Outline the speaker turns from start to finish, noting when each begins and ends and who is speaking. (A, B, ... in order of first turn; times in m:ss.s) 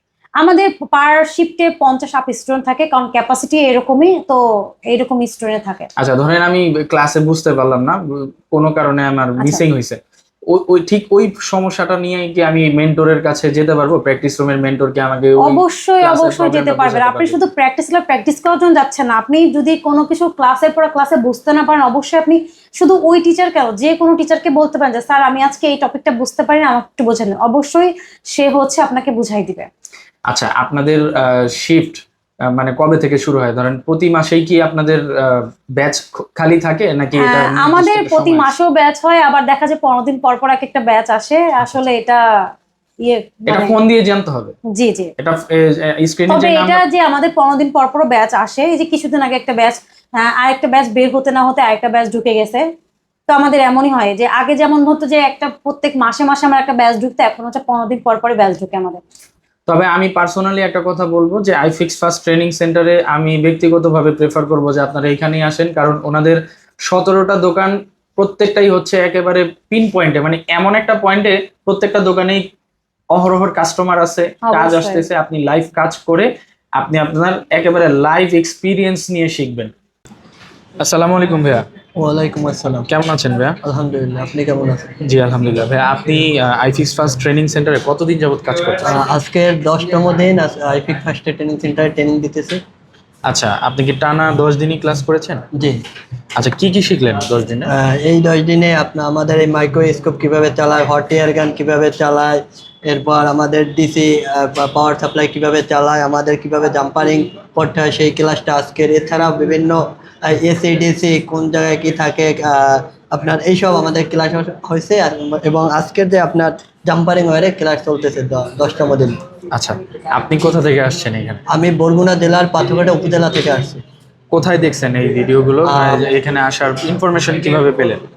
0:00.4-0:05.9 A
0:06.0-0:17.4 B
0:15.4-0:29.7 A
0:30.3-0:38.5 B
0:37.2-0:42.2 A
0:43.0-0:43.7 A
0:43.5-0:44.5 B
0:44.7-0:45.1 A
0:45.2-0:46.8 B
0:46.3-0:52.6 A
0:53.3-0:59.0 A
0:59.7-1:12.4 B
1:13.1-1:19.7 B
1:14.4-1:15.0 A
1:20.8-1:21.6 B
1:22.0-1:22.9 C
1:22.9-1:23.6 B
1:23.6-1:24.9 C
1:25.0-1:29.0 B
1:28.8-1:32.6 C
1:33.3-1:35.4 B
1:35.5-1:35.8 C
1:36.4-1:37.7 B
1:37.6-1:59.2 C
1:59.5-2:01.4 B
2:01.5-2:03.8 C
2:04.3-2:08.0 B
2:05.6-2:06.0 C